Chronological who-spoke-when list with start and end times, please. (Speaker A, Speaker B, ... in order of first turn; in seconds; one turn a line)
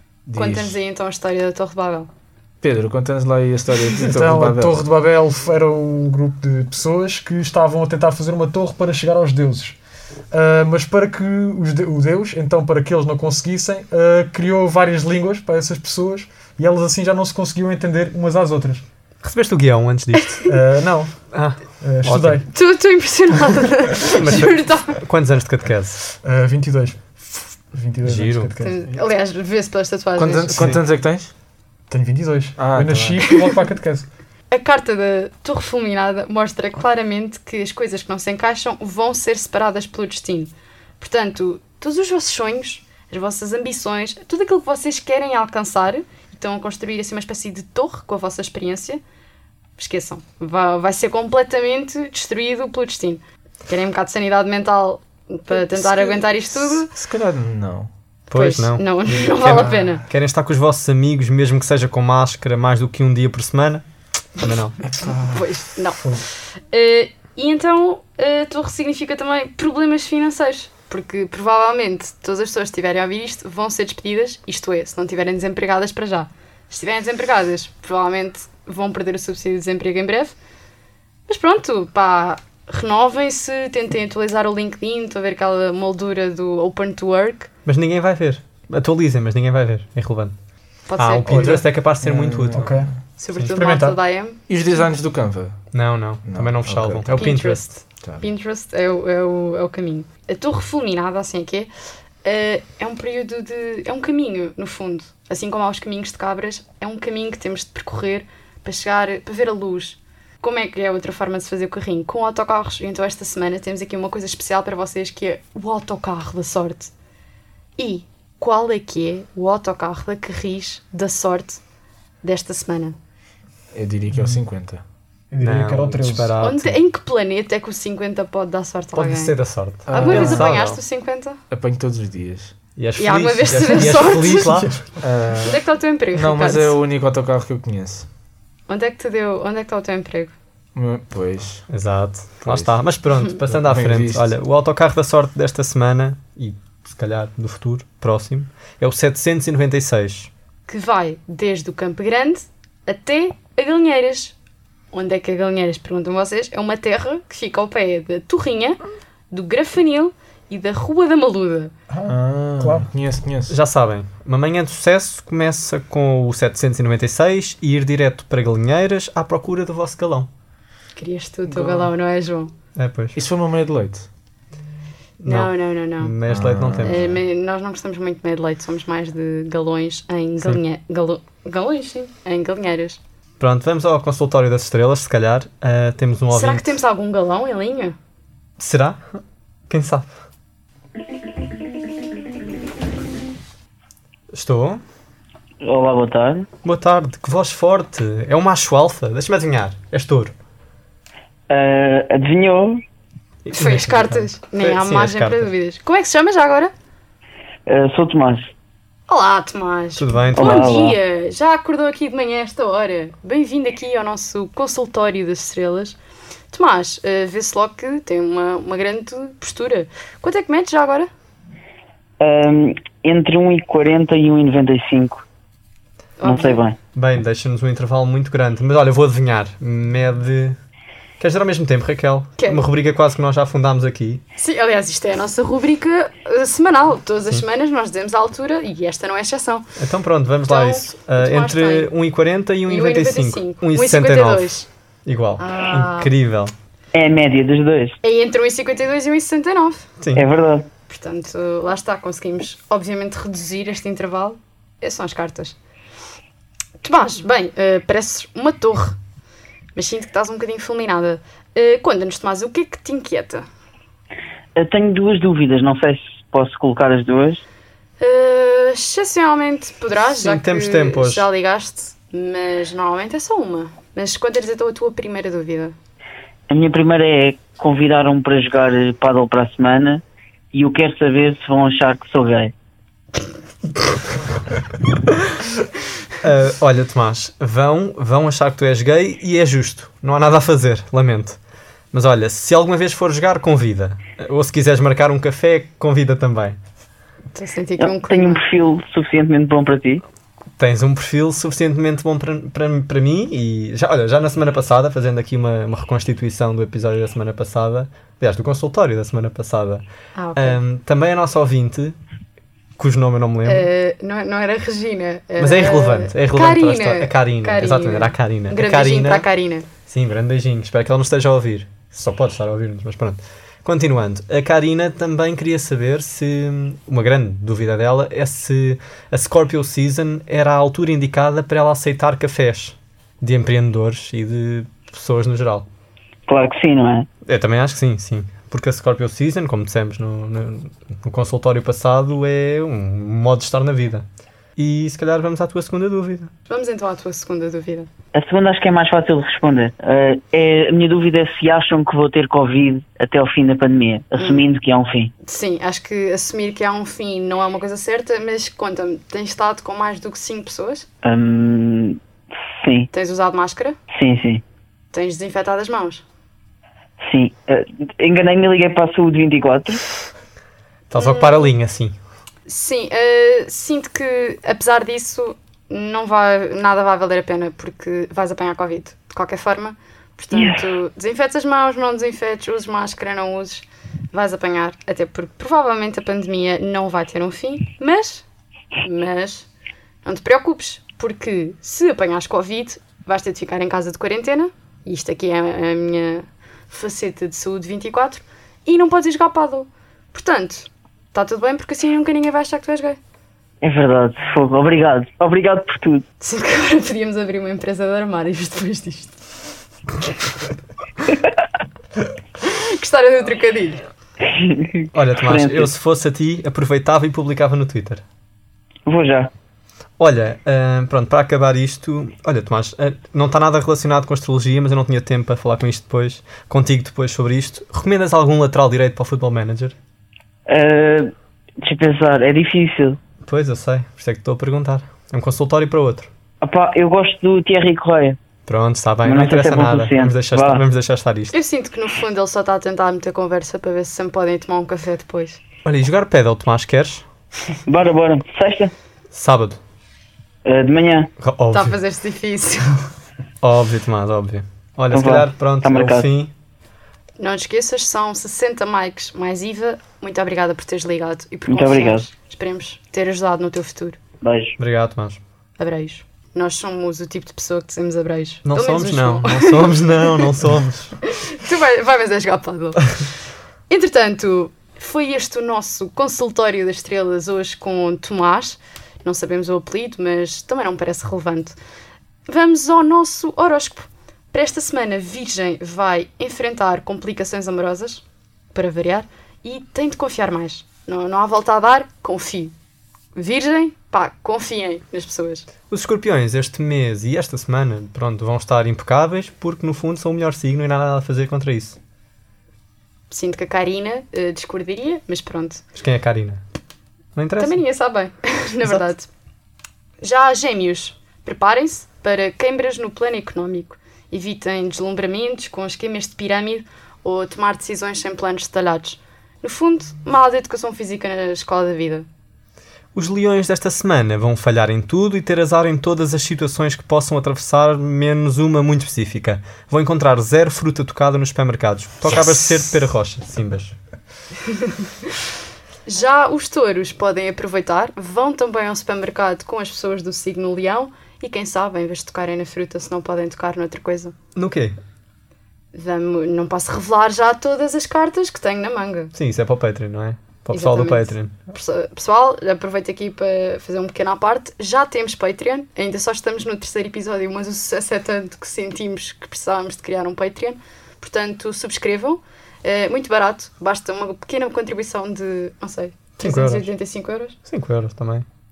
Speaker A: 0.3-0.8
Speaker B: 0.3-2.1
Speaker A: 2.6-4.8
Speaker C: 4.0-9.8
Speaker C: 10.3-18.9
Speaker D: 19.2-20.4
Speaker B: 20.2-20.4
Speaker C: 20.4-22.5
Speaker D: 21.3-22.4
Speaker B: 22.5-25.0
Speaker D: 24.2-26.0
Speaker C: 26.2-28.8
Speaker D: 28.0-28.5
Speaker B: 28.6-30.7
Speaker A: 30.2-31.3
Speaker C: 31.9-34.1
Speaker A: 32.6-33.2
Speaker B: 34.5-49.0
Speaker B: 49.8-56.9
Speaker A: 55.5-57.9
Speaker D: 58.3-63.9
Speaker B: 58.3-60.0
Speaker D: 64.4-64.8
Speaker A: 64.8-65.5
Speaker B: 65.2-80.3
Speaker C: 66.0-66.2
Speaker B: 81.3-87.5
Speaker D: 87.6-90.4
Speaker B: 90.9-91.7
Speaker D: 90.9-92.7
Speaker C: 91.3-91.6
Speaker A: 92.0-93.0
Speaker C: 92.5-92.9
Speaker B: 93.2-94.8
Speaker C: 93.5-94.0
Speaker A: 94.5-95.6
Speaker D: 95.7-97.7
Speaker A: 96.2-97.1
Speaker B: 97.1-101.7
Speaker A: 98.0-98.3
Speaker B: 102.2-116.9
Speaker B: 117.8-121.6
Speaker B: 122.2-123.0
Speaker A: 123.7-124.8
Speaker C: 124.1-124.4
Speaker C: 125.3-126.3
Speaker D: 125.4-126.8
Speaker B: 126.4-131.4
Speaker D: 128.9-130.8
Speaker A: 129.9-130.5
Speaker A: 131.5-132.5
Speaker D: 132.8-134.8
Speaker B: 133.0-134.6
Speaker C: 134.4-134.9
Speaker A: 135.0-138.1
Speaker B: 135.4-136.8
Speaker B: 138.7-140.3
Speaker A: 140.7-141.7
Speaker D: 141.7-150.3
Speaker A: 142.4-142.8
Speaker A: 143.5-144.3
Speaker B: 150.7-154.3
Speaker B: 154.9-158.8
Speaker B: 159.3-161.7
Speaker C: 161.9-162.9
Speaker A: 162.1-163.5
Speaker D: 163.5-170.3
Speaker B: 171.0-172.5
Speaker A: 171.5-171.9
Speaker D: 172.8-173.2
Speaker A: 173.1-174.1
Speaker D: 175.2-177.1
Speaker B: 175.2-176.2
Speaker A: 176.3-177.2
Speaker B: 176.8-183.0
Speaker D: 183.4-186.7
Speaker B: 186.3-187.9
Speaker D: 188.6-190.1
Speaker D: 194.3-194.8
Speaker E: 195.6-196.5
Speaker D: 196.6-200.3
Speaker E: 201.5-202.8
Speaker D: 203.4-205.5
Speaker B: 203.5-206.7
Speaker E: 207.7-208.5
Speaker B: 209.1-216.0
Speaker D: 209.9-210.7
Speaker E: 210.3-211.0
Speaker B: 216.5-221.1
Speaker E: 222.2-225.2
Speaker B: 226.2-226.6
Speaker E: 226.2-226.8
Speaker D: 226.9-230.6
Speaker D: 231.2-234.2
Speaker B: 232.4-232.6
Speaker B: 234.4-239.7
Speaker D: 239.8-246.5
Speaker B: 240.4-241.9
Speaker B: 242.7-244.7
Speaker B: 245.4-246.1
Speaker E: 246.9-248.0
Speaker B: 248.0-249.9
Speaker D: 250.0-250.2
Speaker E: 250.1-250.7
Speaker B: 250.9-255.6
Speaker B: 256.8-259.0
Speaker B: 259.7-263.4
Speaker E: 264.6-267.4
Speaker B: 268.0-275.7
Speaker D: 270.1-271.2
Speaker E: 276.5-282.5
Speaker D: 286.2-291.4
Speaker D: 291.9-296.6
Speaker B: 297.3-298.4
Speaker E: 297.8-300.0
Speaker D: 300.6-312.0
Speaker B: 310.1-310.6
Speaker D: 312.8-313.7
Speaker B: 313.4-319.7
Speaker D: 315.4-319.3
Speaker D: 319.8-335.7
Speaker E: 336.3-337.1
Speaker D: 337.2-346.3
Speaker B: 346.5-347.9
Speaker E: 348.1-355.1
Speaker B: 354.2-354.4
Speaker B: 355.2-360.9
Speaker E: 361.0-362.0
Speaker E: 362.6-362.9
Speaker B: 362.9-363.8
Speaker E: 363.9-364.4
Speaker B: 364.9-366.0
Speaker E: 367.0-369.8
Speaker D: 370.9-372.0
Speaker B: 370.9-371.5
Speaker B: 372.5-388.2
Speaker E: 380.3-380.7
Speaker B: 388.8-389.5
Speaker B: 390.0-403.0
Speaker E: 403.6-406.0
Speaker B: 406.2-409.2
Speaker B: 412.4-413.8
Speaker E: 414.2-415.7
Speaker D: 414.9-418.0
Speaker E: 418.9-419.3
Speaker D: 420.0-429.8
Speaker E: 430.5-433.0
Speaker D: 433.2-436.1
Speaker E: 436.4-438.2
Speaker D: 438.4-441.3
Speaker E: 439.0-440.6
Speaker B: 441.3-445.4
Speaker D: 445.6-447.1
Speaker E: 447.7-448.7
Speaker D: 449.1-449.6
Speaker E: 450.4-451.1
Speaker D: 451.2-451.8
Speaker B: 451.5-452.9
Speaker D: 453.4-456.3
Speaker E: 454.9-456.1
Speaker B: 457.2-464.0
Speaker E: 461.5-462.1
Speaker E: 464.2-464.5
Speaker D: 464.6-465.2
Speaker B: 465.6-470.4
Speaker D: 468.4-470.9
Speaker B: 471.0-473.1
Speaker B: 473.7-481.6
Speaker B: 482.3-492.5
Speaker B: 493.1-495.5
Speaker D: 495.6-501.8
Speaker B: 503.1-505.6
Speaker D: 505.7-506.4
Speaker D: 507.1-507.6
Speaker B: 507.4-509.1
Speaker B: 510.0-522.1
Speaker D: 522.9-533.8
Speaker A: 532.1-532.5
Speaker B: 534.5-534.8
Speaker B: 535.9-544.1
Speaker D: 544.3-544.8
Speaker B: 545.7-549.1
Speaker D: 549.1-551.3
Speaker B: 550.5-567.4
Speaker D: 566.2-566.7
Speaker D: 567.5-568.2